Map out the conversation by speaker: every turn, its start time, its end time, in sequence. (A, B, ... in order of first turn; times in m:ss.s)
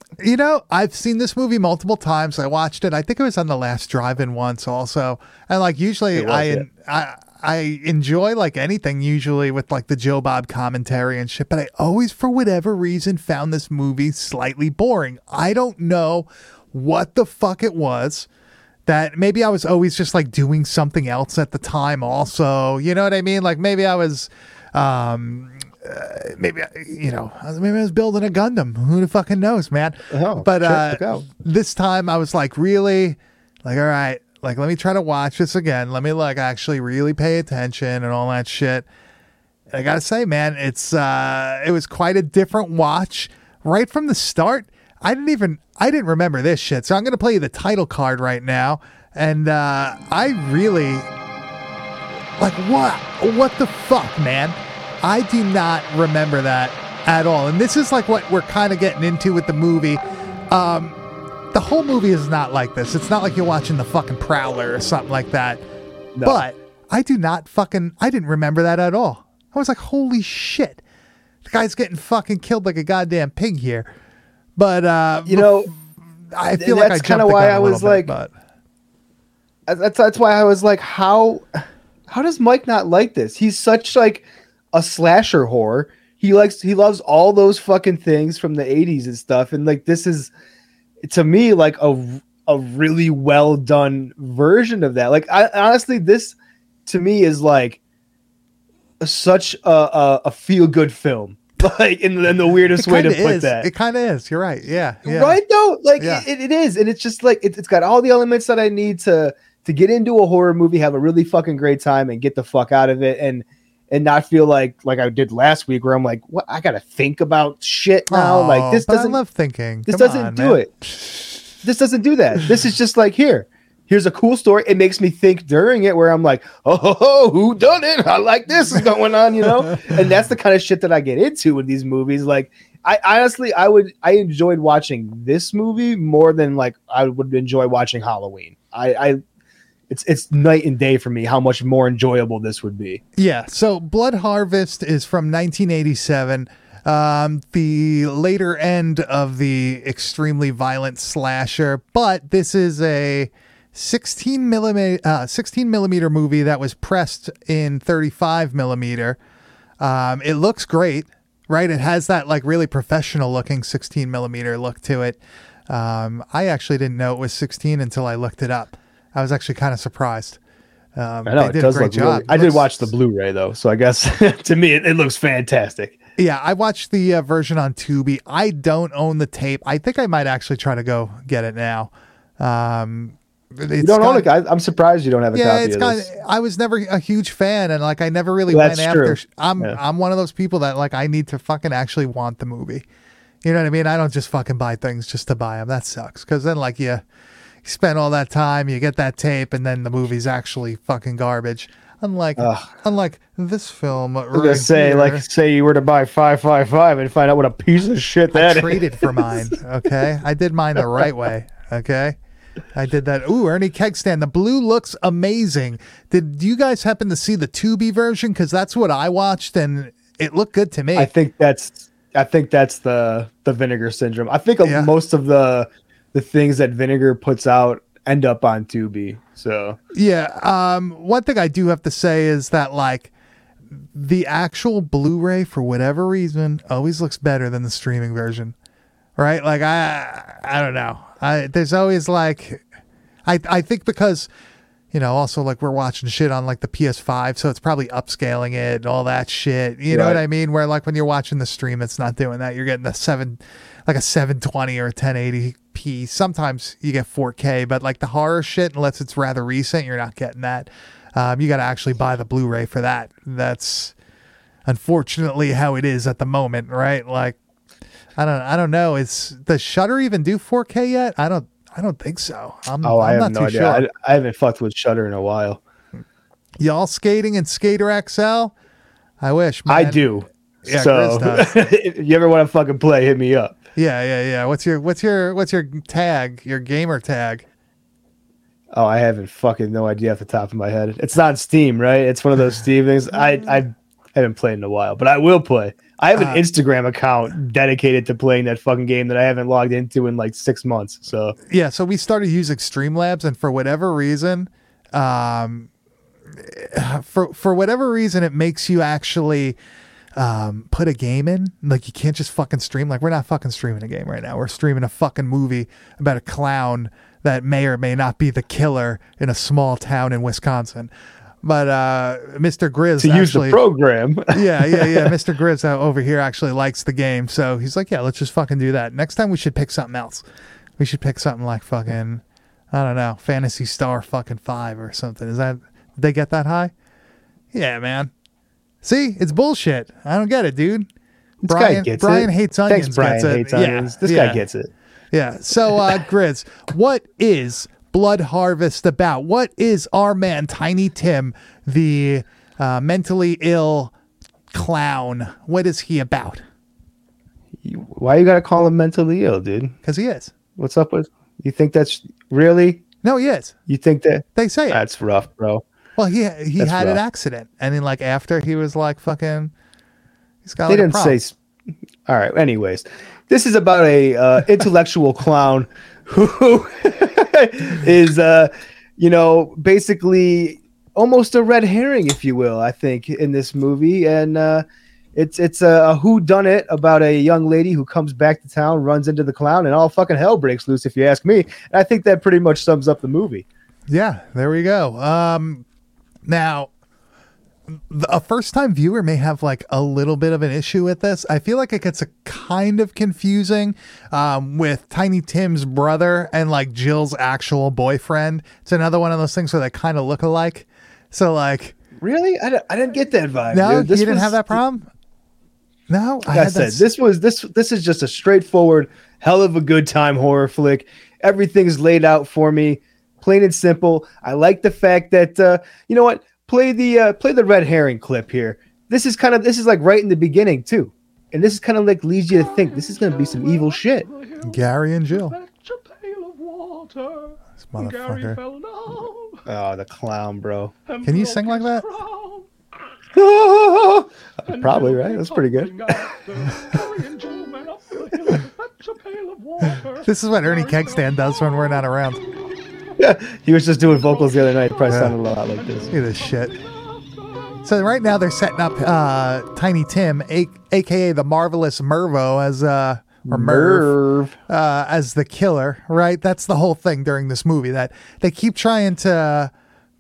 0:00.2-0:18.3 A
0:06.1-0:06.7 B
0:18.9-0:38.9 A
0:30.1-0:31.3 B
0:39.7-0:51.1 A
0:52.4-1:01.0 A
1:01.5-1:05.6 A
1:06.2-1:06.4 B
1:06.2-1:10.8 A
1:11.4-1:13.9 A
1:14.6-1:15.8 A
1:15.3-1:15.7 B
1:16.3-1:18.3 A
1:16.6-1:18.1 B
1:19.7-1:30.3 B
1:31.0-1:36.4 B
1:36.9-1:37.8 B
1:39.0-1:43.7 B
1:42.8-1:45.4 A
1:45.0-1:59.2 B
1:46.0-1:46.2 A
1:58.1-2:01.3 A
1:59.9-2:00.7 B
2:01.6-2:19.2 B
2:19.9-2:23.0 B
2:23.2-2:39.2 A
2:39.8-2:50.4 A
2:51.0-2:52.9 A
2:51.3-2:56.0 B
2:56.2-3:04.3 A
3:03.8-3:06.1 B
3:05.3-3:12.8 A
3:08.5-3:09.8 B
3:13.4-3:17.0 A
3:17.6-3:25.3 A
3:22.4-3:22.7 B
3:24.3-3:29.5 B
3:28.3-3:32.2 A
3:32.7-3:41.1 A
3:41.0-3:49.8 B
3:44.6-3:44.9 A
3:49.9-3:53.1 A
3:53.7-3:58.6 A
3:59.2-4:02.6 A
4:03.3-4:04.3 A
4:04.9-4:23.9 A
4:09.9-4:10.2 B
4:24.7-4:27.4 A
4:28.2-4:33.9 A
4:32.8-4:35.6 B
4:36.6-4:38.5 A
4:39.2-4:40.1 A
4:39.7-4:43.6 B
4:40.6-4:41.6 A
4:43.8-4:47.5 A
4:48.7-5:01.4 B
4:56.2-4:56.4 A
5:01.5-5:05.7 A
5:06.4-5:09.6 A
5:10.2-5:20.9 A
5:21.4-5:23.6 A
5:23.0-5:25.1 B
5:24.3-5:30.2 A
5:30.8-5:36.7 A
5:37.5-5:38.1 A
5:38.8-5:40.9 A
5:41.4-5:44.7 B
5:41.5-5:44.4 A
5:45.1-5:53.9 A
5:54.5-5:56.4 A
5:57.6-5:59.7 B
5:59.8-6:00.3 A
6:00.6-6:02.8 B
6:03.0-6:03.6 A
6:03.7-6:05.6 B
6:04.4-6:04.8 A
6:06.0-6:09.5 A
6:06.6-6:07.0 B
6:10.4-6:11.2 A
6:10.7-6:11.4 B
6:12.1-6:24.6 B
6:25.2-6:33.4 B
6:33.9-6:35.6 A
6:36.3-6:36.7 A
6:37.7-6:51.8 A
6:52.0-6:54.6 B
6:53.5-6:54.9 A
6:55.9-6:56.9 A
6:56.3-7:14.1 B
7:12.5-7:19.4 C
7:14.4-7:15.4 A
7:17.7-7:18.4 A
7:19.5-7:20.7 B
7:20.9-7:22.5 C
7:21.0-7:21.9 A
7:23.2-7:26.1 B
7:24.5-7:31.8 C
7:30.0-7:32.2 A
7:33.0-7:35.9 B
7:34.0-7:34.5 C
7:34.9-7:35.2 A
7:35.5-7:37.6 C
7:35.9-7:36.6 A
7:37.6-7:43.9 A
7:43.3-7:44.4 B
7:44.5-7:49.5 A